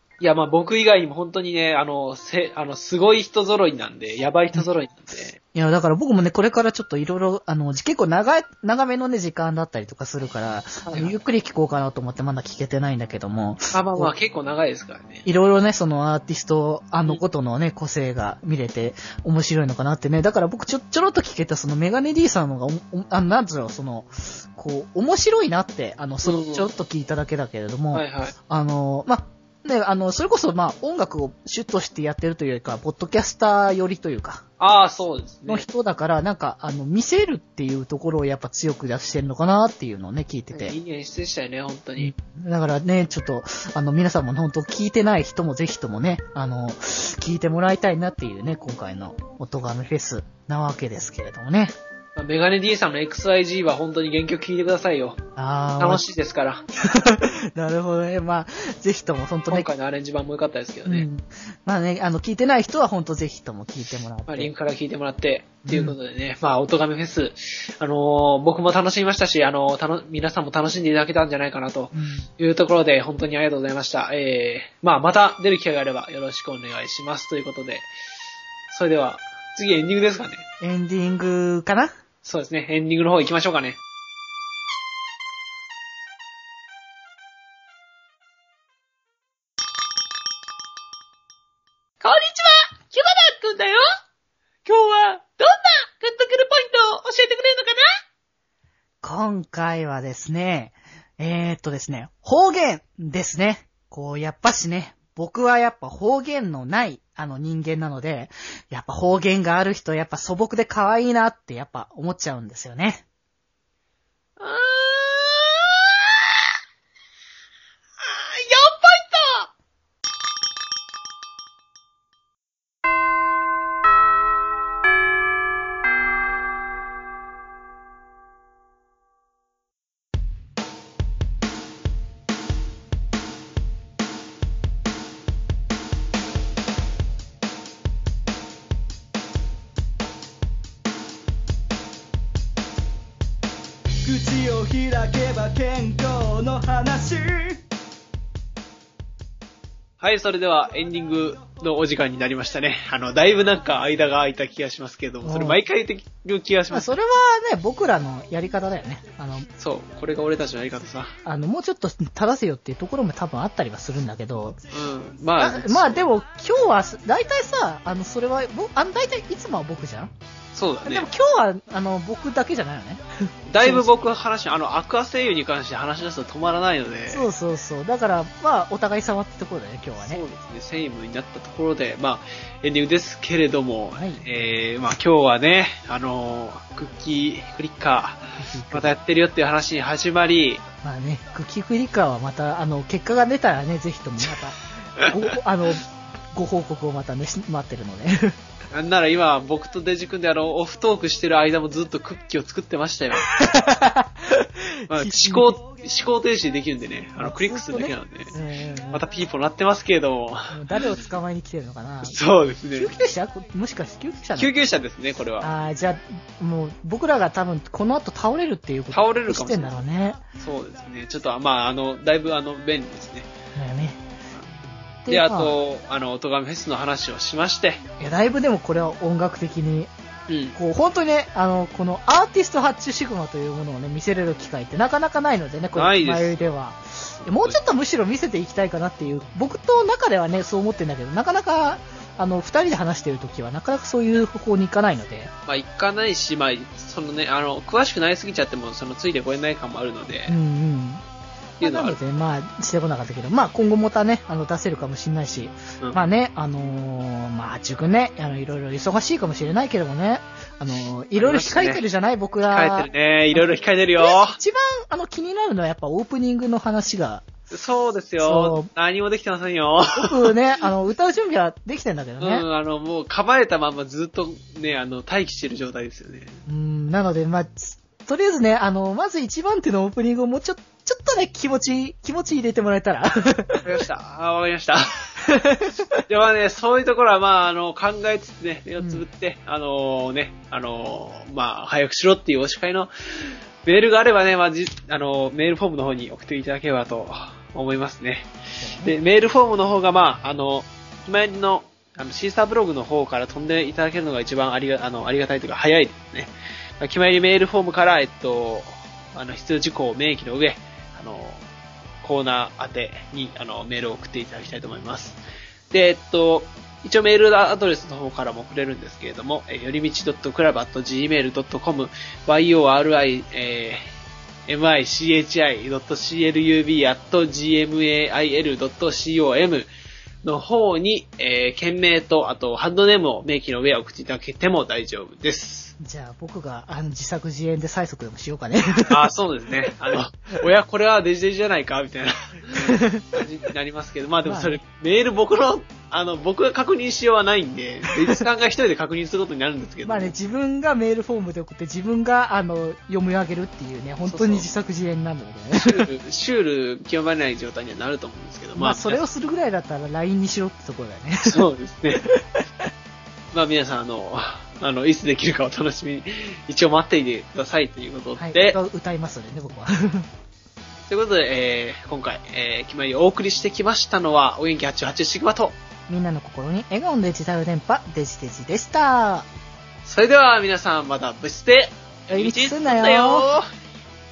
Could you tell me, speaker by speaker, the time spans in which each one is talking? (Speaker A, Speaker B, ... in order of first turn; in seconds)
Speaker A: 0.2-5.4, 10.8-11.2, 13.7-15.2, 26.2-26.7, 27.9-28.3, 34.6-35.6, 40.5-42.1, 52.1-55.2, 55.8-56.6, 59.5-61.1, 64.3-77.9, 78.7-80.4, 82.2-83.8, 92.0-93.8, 94.6-97.9, 114.4-116.3, 118.0-119.5, 150.0-156.9, 159.6-161.1, 164.7-166.0, 170.5-171.1, 173.5-177.3, 180.0-190.6, 198.7-203.3, 204.9-208.3, 208.9-211.0, 212.0-212.9, 214.3-215.5, 218.9-219.7, 220.4-223.3, 225.1-227.8, 230.3-230.5, 235.7-236.5, 237.2-237.6, 245.4-250.3, 251.6-252.0, 261.1-261.8, 262.5-264.4, 267.5-270.3, 272.2-276.4, 283.6-285.1, 286.1-292.9, 293.6-311.5, 312.0-315.2, 315.7-323.9, 324.5-329.7, 330.2-335.7, 338.9-350.1, 354.1-354.5, 355.5-359.0, 361.2-362.1, 363.3-368.6, 370.9-375.6, 379.8-383.5
Speaker B: 5.5-14.1, 15.2-34.4, 35.5-40.8, 42.0-51.7, 55.4-56.0, 56.8-59.7, 60.9-64.5, 65.6-66.0, 71.9-72.3, 80.6-81.9, 99.0-113.0, 155.2-155.6, 156.7-159.5, 161.2-164.6, 165.4-170.1, 170.8-173.9, 177.1-180.2, 184.0-184.2, 188.4-188.9, 190.8-198.3, 203.3-205.6, 207.2-209.0, 210.5-212.2, 212.8-214.5, 215.4-220.2, 223.5-224.0, 225.0-225.6, 228.0-229.9, 230.5-245.3, 250.3-251.0, 251.6-263.4, 264.0-267.3, 268.2-268.7, 269.9-272.4, 276.4-283.7, 285.3-286.0, 288.8-289.0, 298.6-298.9, 335.8-339.1, 342.5-343.2, 344.2-344.6, 349.8-355.9, 358.6-361.4, 362.1-362.7, 368.2-370.1, 375.9-379.3, 382.1-383.2
Speaker C: 144.1-147.6